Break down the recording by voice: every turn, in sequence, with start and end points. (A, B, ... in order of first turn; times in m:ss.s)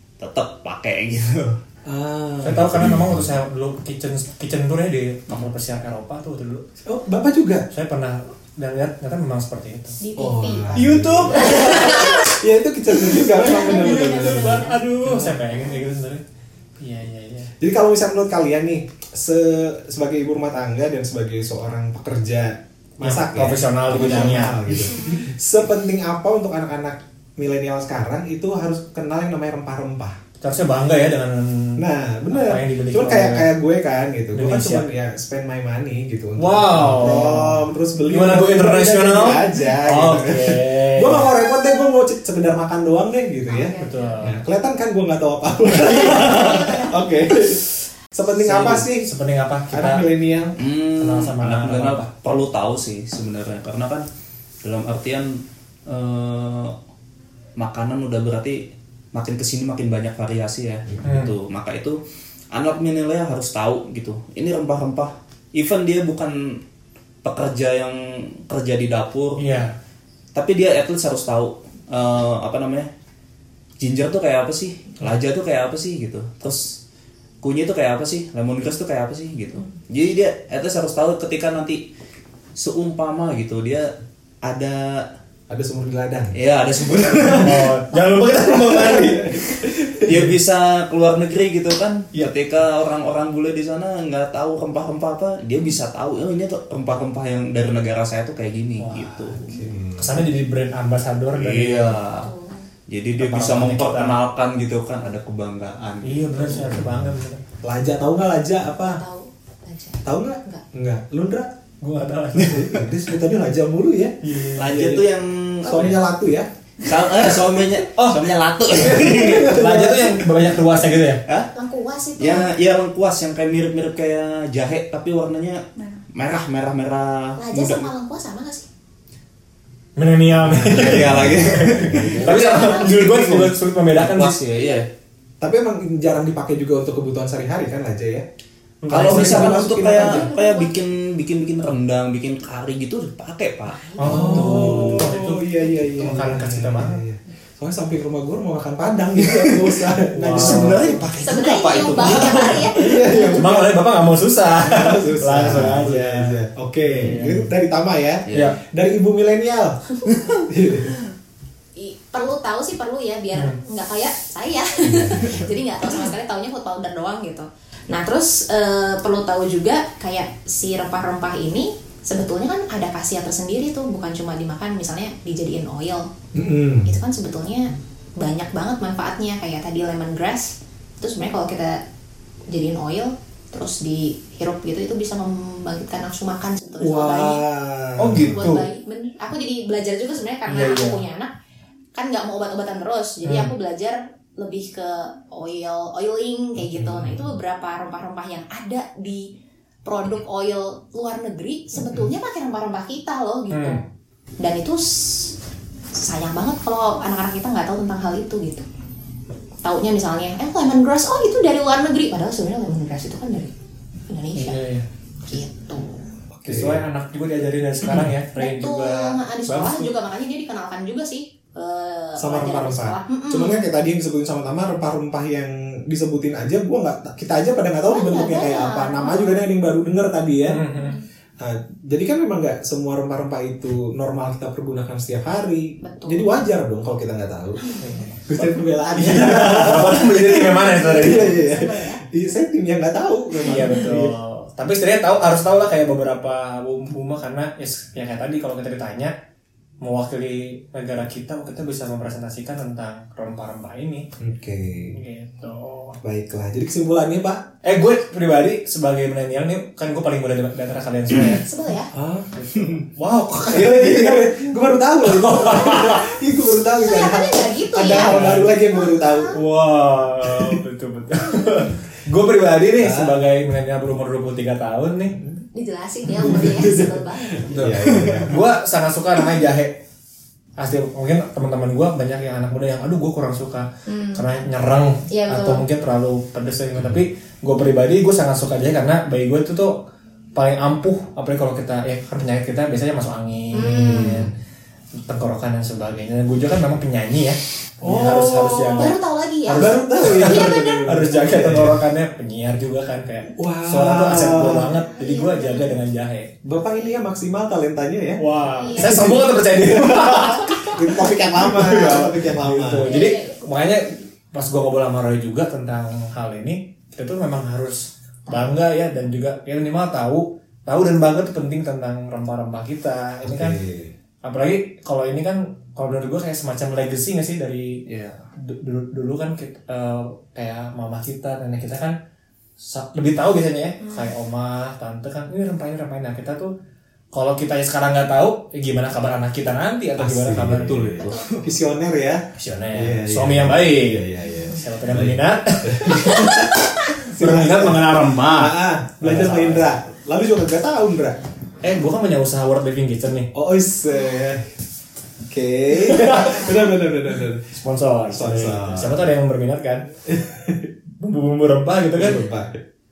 0:00.2-0:01.6 A
0:01.8-0:03.3 B
0:02.4-0:06.6 C
0:06.8-0:07.7 B
0:07.7-0:10.0 C
0:10.0-0:10.7 D
0:10.2-0:15.4 B
0:10.7-0:12.2 C
0:11.3-0:12.4 D
0:13.0-0:14.8 D
0:13.8-0:16.2 C
0:16.8-0:17.5 C
0:17.6-0:30.2 B
0:23.0-0:24.6 C
0:30.4-0:33.5 C
0:31.8-0:49.1 B
0:34.3-0:34.9 C
0:36.4-0:41.3 C
0:43.5-0:44.2 D
0:43.8-0:44.4 C
0:45.8-0:47.0 D
0:48.4-0:50.0 C
0:49.7-0:50.6 B
0:50.6-0:54.0 A
0:51.0-0:52.1 C
0:54.6-0:56.7 A
0:57.6-0:58.6 A
0:59.1-1:02.0 A
1:01.0-1:01.3 C
1:02.5-1:06.6 A
1:07.2-1:09.4 A
1:09.4-1:09.7 C
1:10.3-1:12.9 A
1:13.8-1:16.8 A
1:17.4-1:21.8 A
1:22.6-1:23.9 A
1:24.4-1:25.0 A
1:25.5-1:26.3 B
1:26.3-1:27.7 A
1:27.1-1:27.5 B
1:27.4-1:29.4 C
1:28.5-1:30.1 B
1:30.0-1:39.6 A
1:38.8-1:39.4 C
1:39.5-1:40.2 B
1:40.0-1:42.0 C
1:41.4-1:42.3 A
1:42.2-1:42.6 D
1:42.9-1:46.7 A
1:43.2-1:44.2 C
1:46.0-1:47.4 C
1:46.7-1:47.1 B
1:47.6-1:49.0 B
1:48.8-1:50.6 D
1:50.0-1:51.5 B
1:51.8-1:52.8 C
1:52.3-1:55.1 B
1:54.2-1:54.7 C
1:54.6-1:56.0 A
1:55.6-1:56.5 B
1:56.8-1:59.5 A
1:58.0-1:58.2 C
1:58.8-2:01.2 C
1:58.8-2:00.3 B
2:01.5-2:02.5 D
2:02.2-2:07.9 A
2:07.4-2:08.7 D
2:10.0-2:14.4 C
2:10.4-2:12.5 B
2:10.6-2:14.9 A
2:12.3-2:12.9 D
2:14.5-2:14.8 D
2:15.4-2:18.2 B
2:18.8-2:19.7 C
2:18.9-2:20.3 B
2:18.9-2:25.1 A
2:19.7-2:20.8 D
2:23.8-2:25.0 D
2:24.0-2:25.5 C
2:24.0-2:31.1 B
2:25.6-2:26.1 D
2:26.0-2:27.0 C
2:29.4-2:29.6 A
2:30.1-2:31.0 C
2:30.3-2:32.7 A
2:31.2-2:33.4 D
2:31.9-2:33.8 B
2:32.0-2:32.6 C
2:33.2-2:37.5 C
2:34.6-2:39.8 B
2:38.3-2:38.6 A
2:40.0-2:40.4 D
2:40.3-2:40.9 B
2:41.8-2:56.1 D
2:44.8-2:45.6 B
2:56.3-2:57.0 B
2:56.8-3:01.8 D
3:02.5-3:07.4 D
3:06.8-3:08.6 B
3:08.0-3:08.6 C
3:08.3-3:11.3 D
3:10.5-3:11.0 C
3:11.9-3:19.3 D
3:13.2-3:13.5 C
3:16.7-3:17.2 B
3:19.8-3:23.8 D
3:21.8-3:22.1 B
3:23.5-3:23.8 C
3:24.4-3:25.3 D
3:26.0-3:28.6 D
3:29.6-3:33.5 D
3:34.1-3:34.6 D
3:34.3-3:34.8 C
3:35.2-3:35.9 D
3:36.3-3:36.8 B
3:36.4-3:39.9 C
3:38.4-3:43.7 D
3:42.2-3:50.6 B
3:47.9-3:49.4 D
3:50.5-3:51.0 C
3:50.8-3:51.0 D
3:51.4-3:57.7 B
3:55.8-3:56.3 D
3:57.8-4:01.4 C
3:58.2-4:04.1 B
4:00.8-4:02.0 D
4:03.4-4:09.1 C
4:09.8-4:14.1 C
4:14.2-4:15.0 B
4:14.9-4:16.0 C
4:16.0-4:17.4 B
4:17.6-4:21.4 C
4:21.2-4:21.9 D
4:21.9-4:22.9 B
4:22.3-4:24.3 C
4:23.5-4:29.4 B
4:25.0-4:26.1 C
4:26.8-4:29.4 D
4:27.9-4:28.5 C
4:29.3-4:35.2 C
4:30.2-4:30.6 B
4:32.8-4:33.2 B
4:35.5-4:37.6 D
4:36.0-4:38.4 B
4:37.5-4:39.8 C
4:40.6-4:49.8 C
4:43.9-4:44.2 D
4:45.1-4:45.6 D
4:50.3-4:54.3 C
4:53.5-4:54.3 D
4:53.6-4:54.3 B
4:55.0-5:06.3 C
4:57.8-4:58.9 B
4:58.7-5:00.9 D
4:59.5-5:01.8 B
5:03.3-5:04.8 B
5:04.9-5:05.8 D
5:06.4-5:08.2 B
5:08.2-5:23.6 C
5:08.5-5:09.1 D
5:08.7-5:12.9 B
5:12.8-5:13.5 D
5:23.2-5:23.9 B
5:24.2-5:27.8 C
5:27.9-5:28.2 A
5:28.4-5:32.0 C
5:32.6-5:36.5 C
5:33.8-5:34.1 D
5:37.1-5:40.9 C
5:40.0-5:51.2 B
5:40.7-5:41.4 A
5:41.0-5:41.3 D
5:42.4-5:46.5 C
5:47.1-5:49.7 C
5:51.6-5:53.3 C
5:53.3-5:54.4 B
5:55.3-5:57.4 B
5:55.7-5:56.5 C
5:57.5-5:59.9 C
5:58.1-5:59.1 B
6:00.1-6:00.7 B
6:01.0-6:02.2 C
6:01.9-6:02.6 B